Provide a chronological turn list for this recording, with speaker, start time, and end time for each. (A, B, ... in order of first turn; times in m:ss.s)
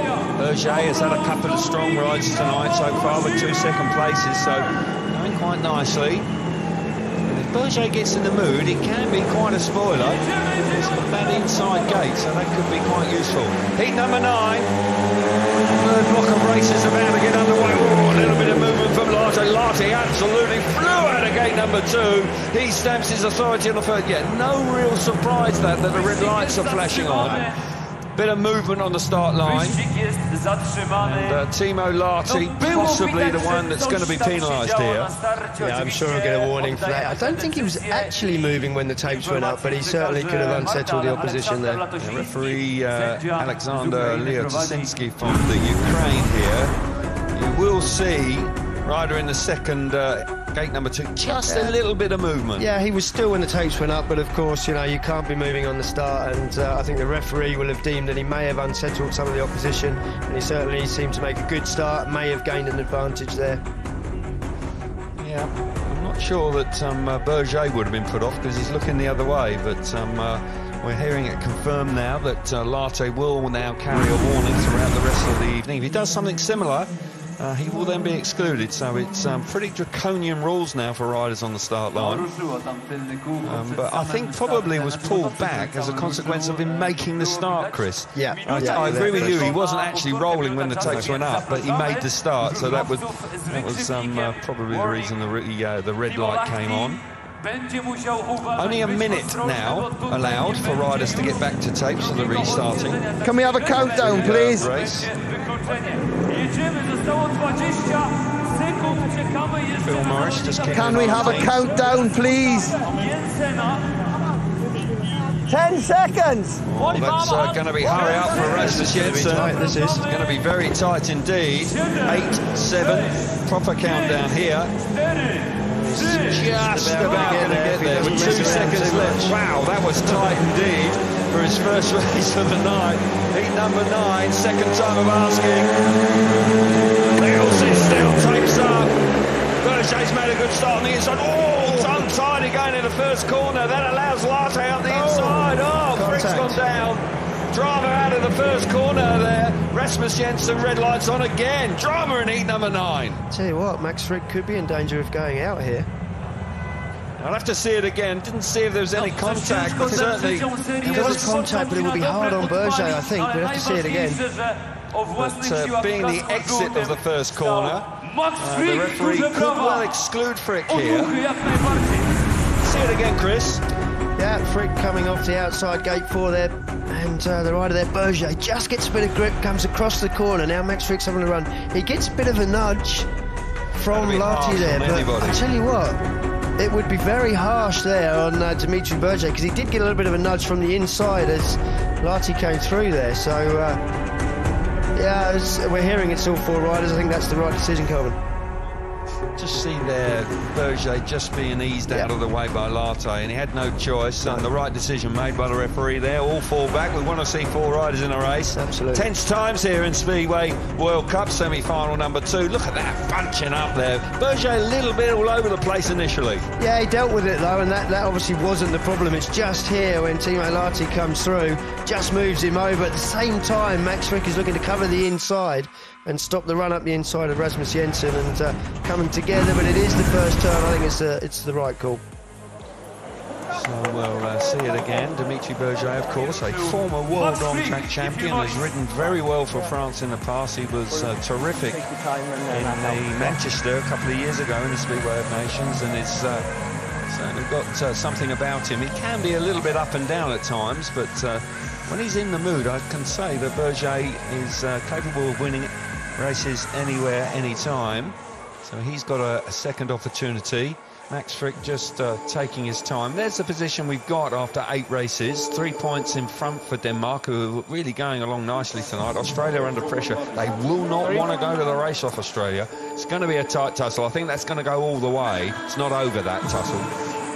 0:00.4-0:06.3 A
0:07.3-0:14.7 A
0:15.6-0:27.5 A
0:28.1-0:29.8 A
0:30.9-0:35.2 A
0:35.6-0:41.8 B
0:42.0-0:46.7 A
0:47.3-0:52.7 A
0:51.4-0:51.7 B
0:52.6-1:03.6 B
1:05.2-1:22.3 A
1:23.4-1:37.0 A
1:28.1-1:29.5 B
1:38.6-1:43.0 A
1:43.2-1:44.7 C
1:43.8-1:45.1 A
1:49.8-1:51.6 A
1:50.7-1:52.8 C
1:55.4-1:56.6 C
1:56.6-2:04.7 A
1:58.6-2:00.0 B
2:05.7-2:09.3 B
2:06.2-2:15.7 A
2:17.2-2:19.0 A
2:19.6-2:33.2 A
2:24.9-2:26.6 B
2:33.3-2:35.9 B
2:37.2-2:41.3 A
2:40.8-2:44.2 B
2:45.1-2:51.2 A
2:52.6-2:53.6 A
2:54.2-3:03.1 B
3:03.8-3:05.4 A
3:03.8-3:06.0 B
3:06.6-3:13.8 B
3:14.9-3:18.2 B
3:19.4-3:36.4 A
3:28.5-3:29.1 B
3:36.6-3:52.0 B
3:53.5-4:01.9 A
4:01.8-4:03.4 C
4:02.5-4:06.5 A
4:07.1-4:36.9 A